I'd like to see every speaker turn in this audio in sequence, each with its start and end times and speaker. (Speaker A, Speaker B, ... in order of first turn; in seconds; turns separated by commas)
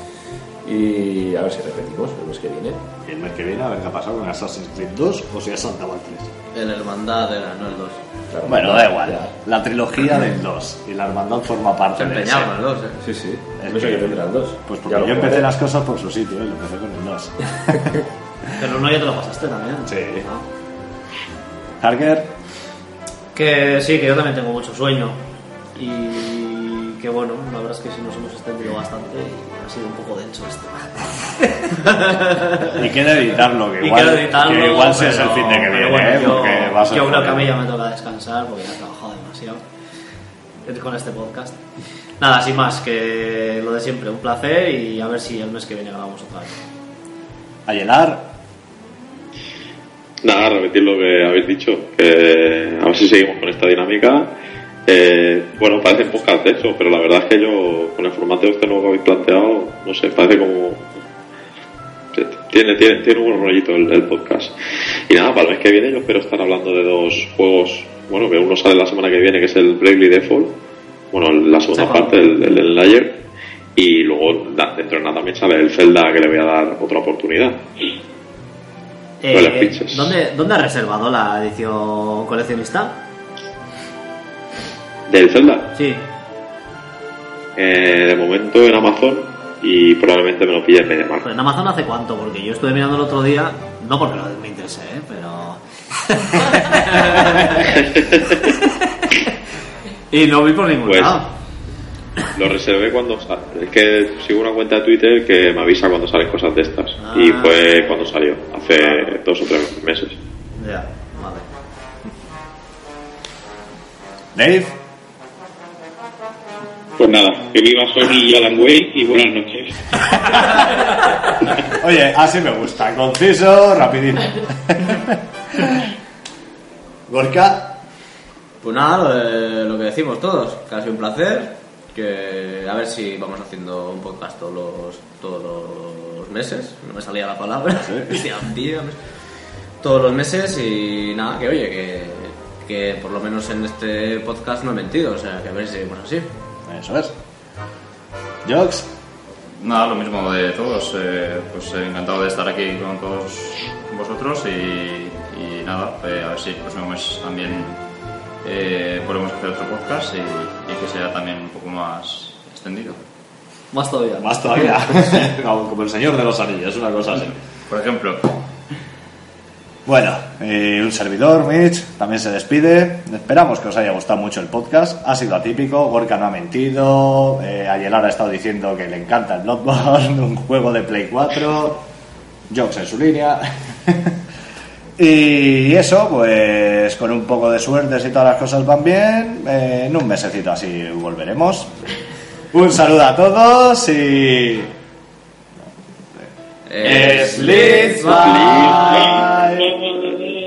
Speaker A: 0.6-2.8, Speaker B: 3.0-6.3, Speaker C: 6.5-8.0, Speaker A: 8.3-9.3, Speaker B: 8.4-12.5, Speaker C: 11.9-13.0, Speaker A: 13.0-15.5, Speaker B: 13.6-18.5, Speaker D: 18.6-20.4, Speaker B: 19.9-20.2, Speaker B: 21.8-22.3, Speaker D: 23.3-25.2, Speaker D: 25.8-32.8, Speaker B: 32.7-37.5, Speaker D: 33.8-39.6, Speaker D: 40.6-41.6, Speaker D: 42.2-46.5, Speaker B: 47.6-48.3, Speaker E: 50.2-54.3, Speaker E: 54.9-60.8, Speaker E: 62.1-64.5, Speaker E: 65.1-70.5, Speaker E: 71.1-73.2, Speaker D: 71.7-72.1, Speaker E: 73.8-77.6, Speaker D: 79.2-83.0, Speaker E: 79.3-80.1, Speaker E: 85.1-85.7, Speaker D: 85.7-86.0, Speaker E: 87.5-91.2, Speaker D: 91.2-99.1, Speaker E: 97.6-98.4, Speaker D: 100.1-101.3, Speaker E: 100.8-101.2, Speaker E: 102.3-110.2, Speaker D: 107.0-108.1, Speaker D: 110.6-111.4, Speaker B: 114.3-114.8, Speaker F: 117.0-120.6, Speaker B: 121.6-125.9, Speaker B: 127.1-127.8, Speaker C: 128.6-139.0, Speaker B: 137.8-138.3, Speaker C: 139.8-146.3, Speaker B: 146.7-147.1, Speaker B: 148.4-148.9, Speaker G: 149.6-157.7, Speaker G: 158.4-163.0, Speaker D: 163.7-164.4, Speaker B: 164.2-167.3, Speaker G: 167.7-168.4, Speaker B: 169.8-181.8, Speaker B: 182.5-184.2, Speaker B: 185.0-191.7, Speaker B: 192.5-194.7, Speaker B: 196.1-200.2, Speaker C: 196.7-199.3, Speaker D: 198.2-199.0